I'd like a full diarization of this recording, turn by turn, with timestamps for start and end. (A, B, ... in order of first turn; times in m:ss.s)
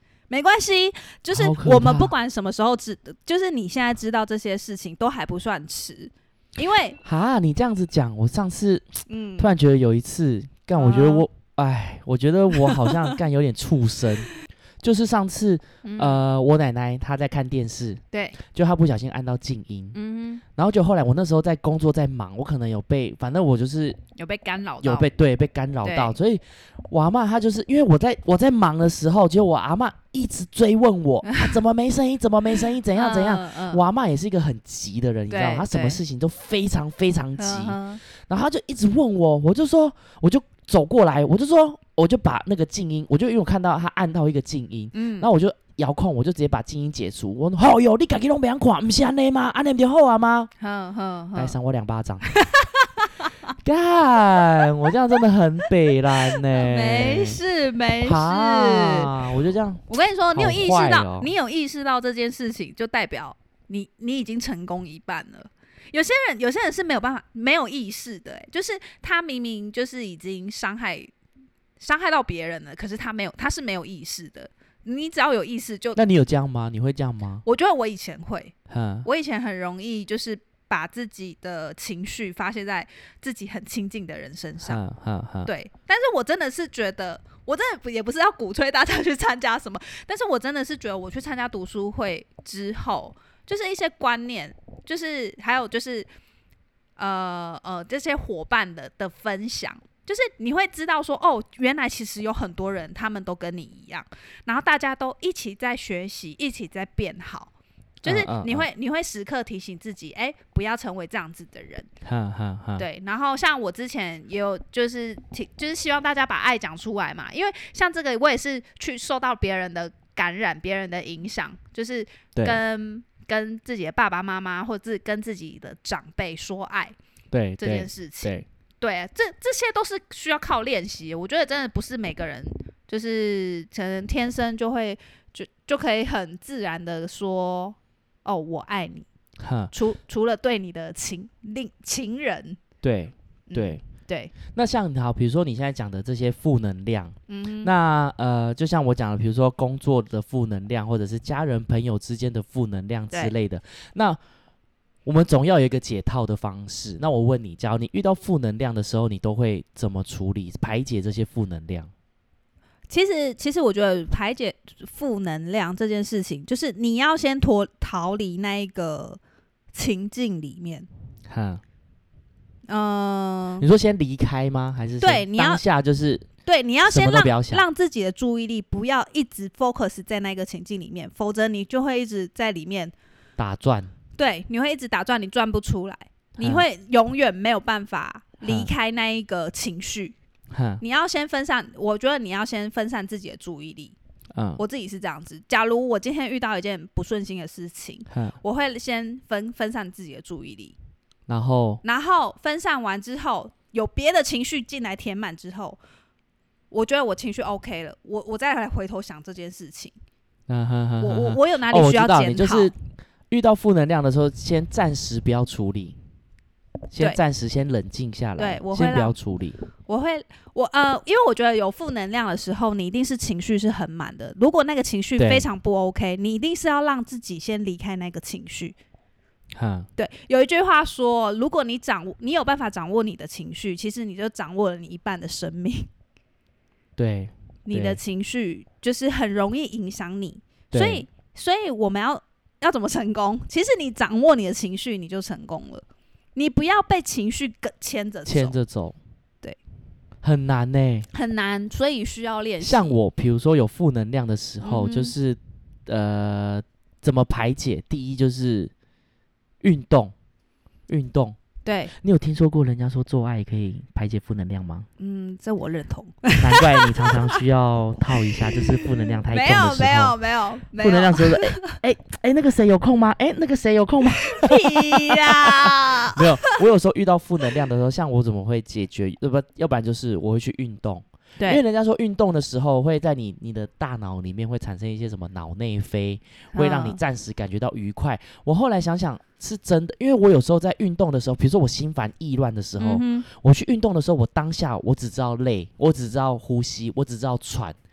0:00.3-0:07.0 A
0:01.3-0:02.1 B
0:07.0-0:14.3 B
0:09.1-0:09.5 A
0:10.8-0:11.3 A
0:12.6-0:13.2 A
0:14.8-0:20.0 B
0:15.8-0:16.2 A
0:18.1-0:18.4 A
0:19.9-0:20.4 A
0:20.6-0:24.0 B
0:24.2-0:25.1 A
0:24.8-0:50.5 B
0:25.8-0:26.2 A
0:31.2-0:31.5 A
0:32.9-0:33.8 A
0:35.3-0:36.0 A
0:37.4-0:38.0 A
0:44.9-0:45.3 A
0:50.6-0:51.6 A
0:51.4-0:52.3 B
0:52.3-0:53.4 A
0:53.6-0:57.4 B
0:56.3-0:59.1 A
0:58.0-0:59.8 B
0:59.9-1:11.1 A
1:00.4-1:01.3 B
1:11.8-1:16.0 A
1:16.0-1:17.4 B
1:17.4-1:24.8 A
1:18.7-1:19.1 B
1:24.6-1:25.5 B
1:25.4-1:36.1 A
1:37.0-1:47.5 A
1:48.0-1:51.9 A
1:48.0-1:48.7 B
1:52.0-1:52.8 B
1:52.8-2:07.0 A
2:02.4-2:02.6 B
2:07.3-2:08.5 B
2:07.6-2:19.1 A
2:19.4-2:19.7 B
2:19.7-2:22.6 A
2:22.8-2:23.8 B
2:23.5-2:24.3 A
2:24.5-2:34.2 B
2:27.3-2:27.7 A
2:35.0-2:41.9 B
2:42.9-2:49.2 A
2:49.7-2:50.9 A
2:51.3-2:51.6 B
2:52.7-2:53.7 A
2:53.6-2:56.3 B
2:55.0-2:55.6 A
2:56.4-3:02.9 A
2:56.9-2:57.6 B
3:03.4-3:03.9 B
3:04.2-3:10.2 A
3:06.4-3:06.6 B
3:08.4-3:08.7 B
3:10.5-3:10.8 B
3:10.8-3:14.0 A
3:14.4-3:14.6 B
3:14.6-3:20.8 A
3:18.1-3:18.4 B
3:21.3-3:21.8 B
3:21.8-3:25.8 A
3:26.7-3:30.0 A
3:30.5-3:32.7 B
3:31.0-3:32.7 A
3:33.3-3:36.0 B
3:36.9-3:39.6 B
3:38.4-3:39.2 A
3:39.9-3:48.8 A
3:45.2-3:45.5 B
3:49.6-3:49.9 B
3:50.0-3:55.9 A
3:57.0-3:58.0 B
3:57.7-4:05.8 A
4:00.7-4:01.0 B
4:06.4-4:08.6 A
4:08.3-4:09.0 B
4:10.2-4:11.1 B
4:11.1-4:13.0 A
4:12.6-4:18.7 B
4:14.6-4:15.2 A
4:19.6-4:20.1 B
4:20.9-4:21.4 B
4:21.6-4:21.9 A
4:22.0-4:24.9 B
4:25.0-4:27.4 A
4:26.4-4:30.2 B
4:28.2-4:31.8 A
4:30.8-4:57.8 B
4:34.1-4:36.5 A
4:46.5-4:47.0 A
4:52.8-4:53.3 A